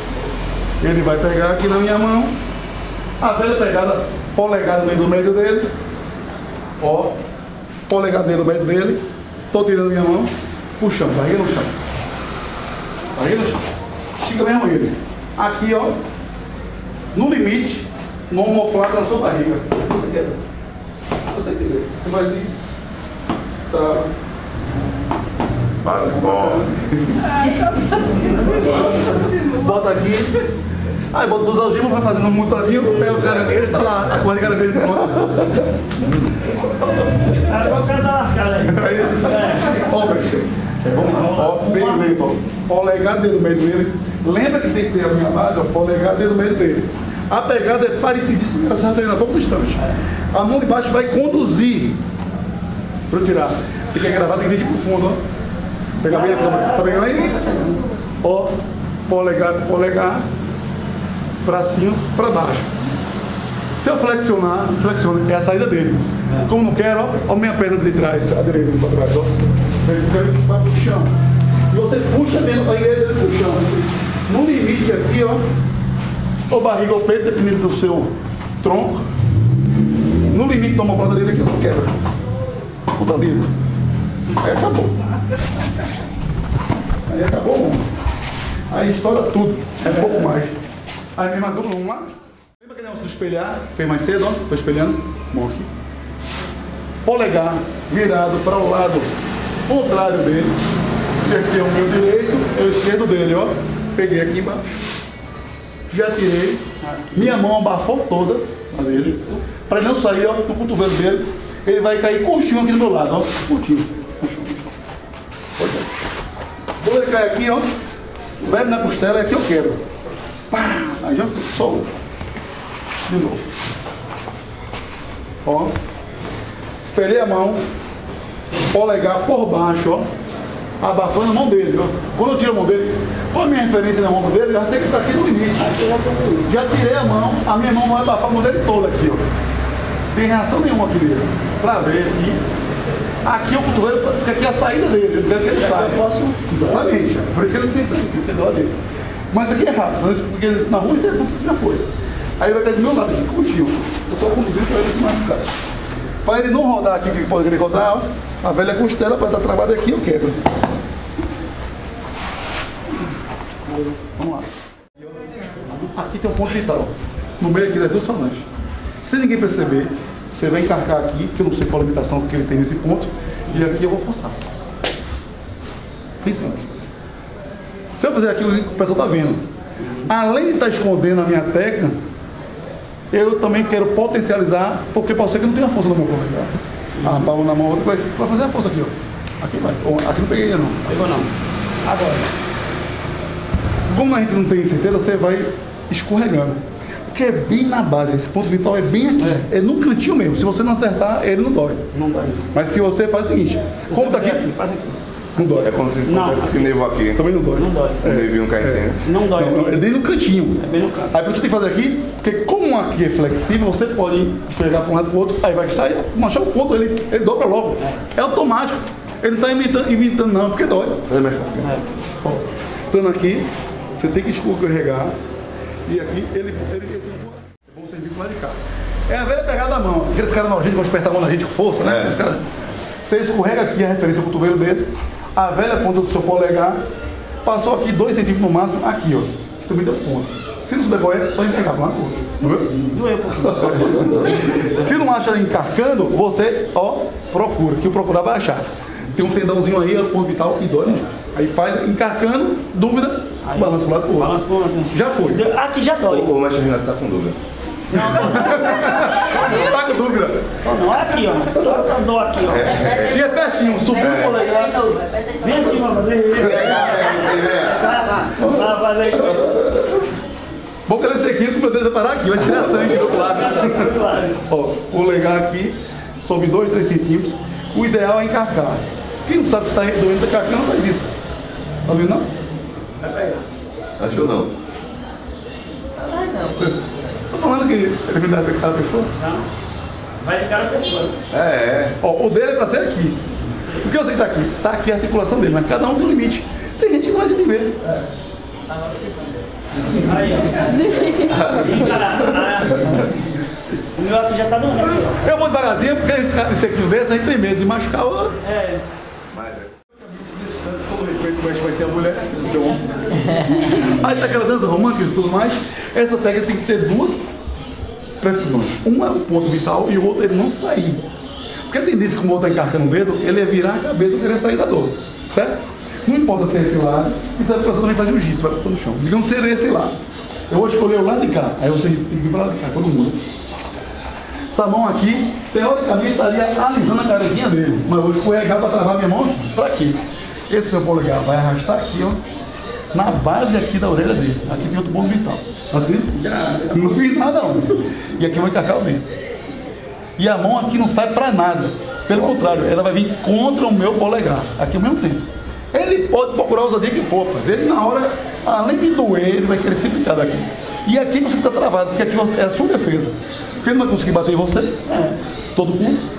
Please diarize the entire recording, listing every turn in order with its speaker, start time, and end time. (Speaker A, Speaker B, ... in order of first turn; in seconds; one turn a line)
Speaker A: 0.8-2.4
Speaker A: 3.2-5.7
Speaker A: 6.8-7.2
Speaker A: 7.9-11.7
Speaker A: 13.1-13.7
Speaker A: 14.2-16.0
Speaker A: 17.1-20.4
Speaker A: 21.3-22.7
Speaker A: 23.7-24.1
Speaker B: 25.9-26.6
Speaker A: 25.9-30.4
Speaker A: 31.1-35.7
Speaker C: 36.6-39.8
Speaker A: 38.7-52.0
Speaker C: 40.9-42.2
Speaker A: 53.1-55.2
Speaker A: 56.0-57.4
Speaker C: 56.0-57.8
Speaker A: 58.2-58.6
Speaker A: 59.1-60.2
Speaker A: 61.4-62.7
Speaker A: 63.8-71.1
Speaker A: 71.7-75.4
Speaker A: 76.5-79.0
Speaker A: 80.3-82.0
Speaker A: 82.9-83.5
Speaker A: 84.4-85.0
Speaker A: 87.1-87.8
Speaker A: 88.7-90.5
Speaker A: 91.2-95.7
Speaker A: 97.0-99.1
Speaker A: 99.7-100.6
Speaker A: 101.2-104.7
Speaker A: 105.9-106.6
Speaker C: 106.8-107.4
Speaker A: 107.1-109.1
Speaker C: 108.9-109.4
Speaker A: 109.7-114.7
Speaker A: 115.6-116.0
Speaker A: 116.8-117.7
Speaker A: 118.4-119.8
Speaker A: 120.5-121.9
Speaker A: 123.1-123.4
Speaker A: 125.4-125.7
Speaker A: 126.8-127.6
Speaker A: 128.6-130.1
Speaker A: 130.8-135.7
Speaker C: 135.6-136.4
Speaker A: 136.4-139.2
Speaker A: 140.1-142.4
Speaker A: 143.2-148.7
Speaker C: 145.5-146.8
Speaker A: 149.3-151.9
Speaker A: 152.4-155.5
Speaker A: 156.2-160.5
Speaker A: 163.7-164.5
Speaker A: 165.0-168.4
Speaker A: 169.0-174.3
Speaker A: 176.2-176.7
Speaker A: 177.9-179.4
Speaker A: 180.0-182.0
Speaker A: 183.1-191.2
Speaker C: 187.0-187.3
Speaker C: 190.8-191.3
Speaker C: 191.8-192.3
Speaker A: 193.9-201.8
Speaker C: 199.2-199.4
Speaker C: 201.9-202.5
Speaker A: 202.5-204.5
Speaker C: 203.9-206.7
Speaker A: 205.4-205.7
Speaker B: 205.6-207.2
Speaker A: 207.1-221.6
Speaker C: 207.5-208.1
Speaker B: 208.0-209.0
Speaker C: 209.0-209.8
Speaker C: 210.6-211.1
Speaker B: 221.1-221.4
Speaker C: 221.6-221.9
Speaker A: 222.2-225.1
Speaker A: 225.8-232.4
Speaker B: 231.8-232.1
Speaker A: 233.0-236.8
Speaker A: 237.4-242.7
Speaker C: 242.4-244.9
Speaker A: 243.4-254.3
Speaker C: 253.4-256.3
Speaker A: 254.9-255.4
Speaker B: 256.1-257.4
Speaker C: 257.9-259.4
Speaker A: 257.9-260.4
Speaker C: 260.6-262.8
Speaker B: 262.5-263.1
Speaker A: 262.9-265.0
Speaker B: 264.0-264.4
Speaker C: 265.4-269.7
Speaker B: 266.4-267.9
Speaker A: 266.5-266.7
Speaker A: 268.4-268.7
Speaker A: 270.9-281.1
Speaker C: 273.1-274.4
Speaker A: 281.9-282.3
Speaker C: 283.0-283.4
Speaker B: 284.0-284.5
Speaker A: 286.1-289.1
Speaker C: 289.1-289.5
Speaker C: 290.2-291.2
Speaker B: 291.3-291.9
Speaker A: 292.0-293.2
Speaker C: 293.5-293.9
Speaker A: 293.8-297.8
Speaker C: 299.9-303.2
Speaker B: 301.3-301.7
Speaker C: 303.9-305.2
Speaker A: 305.2-308.4
Speaker C: 308.4-308.8
Speaker B: 309.3-309.7
Speaker A: 310.0-317.2
Speaker A: 318.2-321.1
Speaker A: 321.7-329.9
Speaker A: 330.5-333.2
Speaker A: 334.5-342.2
Speaker A: 342.9-346.1
Speaker C: 346.1-347.0
Speaker A: 346.7-349.1
Speaker A: 350.2-364.8
Speaker C: 364.9-365.2
Speaker A: 365.5-366.0